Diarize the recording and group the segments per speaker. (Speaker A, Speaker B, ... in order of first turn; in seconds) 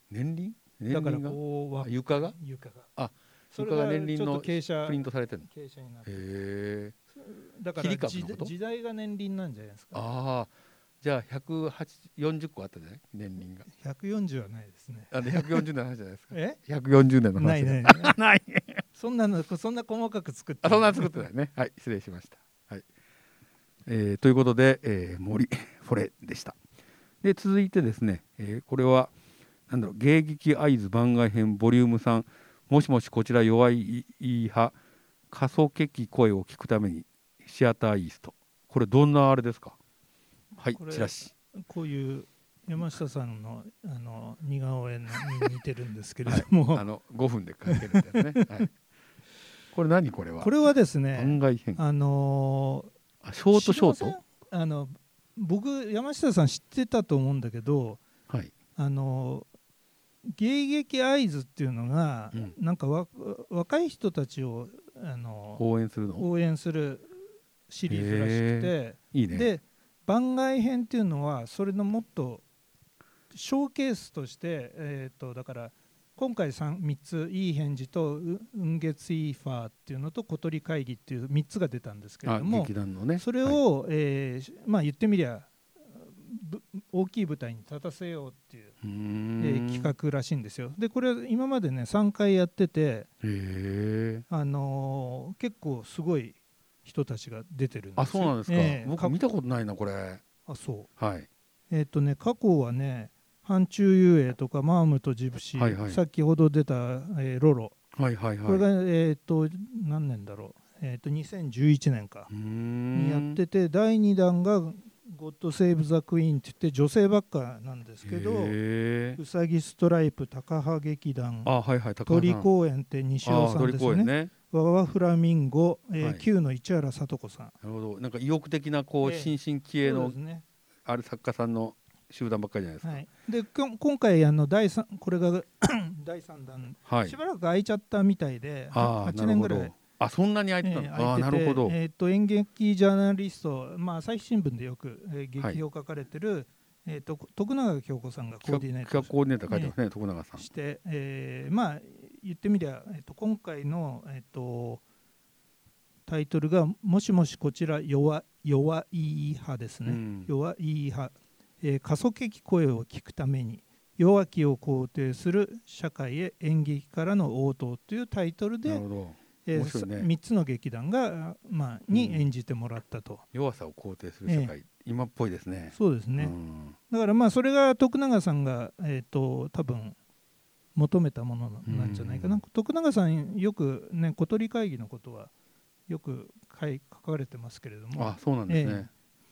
Speaker A: 0.1-2.4, 3.0-5.5, 6.0-6.9, 7.8-8.5, 9.9-10.5, 11.0-13.7, 15.1-18.8, 20.6-22.9, 23.9-26.6, 27.2-29.1, 29.7-34.7, 35.3-39.8, 40.5-41.3, 46.2-48.7, 49.7-50.5, 51.1-51.8, 53.2-54.2, 65.6-66.2, 67.9-69.5, 82.2-83.6, 88.8-89.9, 93.2-94.2, 98.0-100.2, 101.0-101.3, 105.6-106.0, 107.9-108.6, 112.3-113.4, 118.0-119.2, 121.4-122.5, 123.2-124.3, 126.0-126.2, 127.6-130.2, 130.8-133.0, 136.9-137.2, 138.7-141.8, 148.4-150.5, 159.8-160.3, 168.7-170.1, 171.9-172.3, 173.3-176.8, 181.7-182.4, 187.9-188.9
Speaker B: 0.9-2.9, 3.5-6.1, 7.2-10.0, 13.7-15.6, 16.3-16.6, 17.4-18.2, 18.9-21.2, 40.7-46.9, 47.7-48.4, 50.4-52.9, 53.5-58.0, 58.8-59.5, 60.2-65.6, 66.2-67.1, 67.7-72.4, 73.3-88.7, 89.4-93.1, 94.3-99.2, 100.5-100.9, 101.7-107.8, 108.4-112.3, 112.9-118.6, 119.2-121.5, 122.0-127.5, 129.0-130.4, 132.8-139.8, 140.6-149.7, 150.4-154.8, 156.1-168.8, 169.4-173.2, 174.2-174.5, 175.7-176.3, 176.9-179.9, 180.7-185.3, 185.9-188.9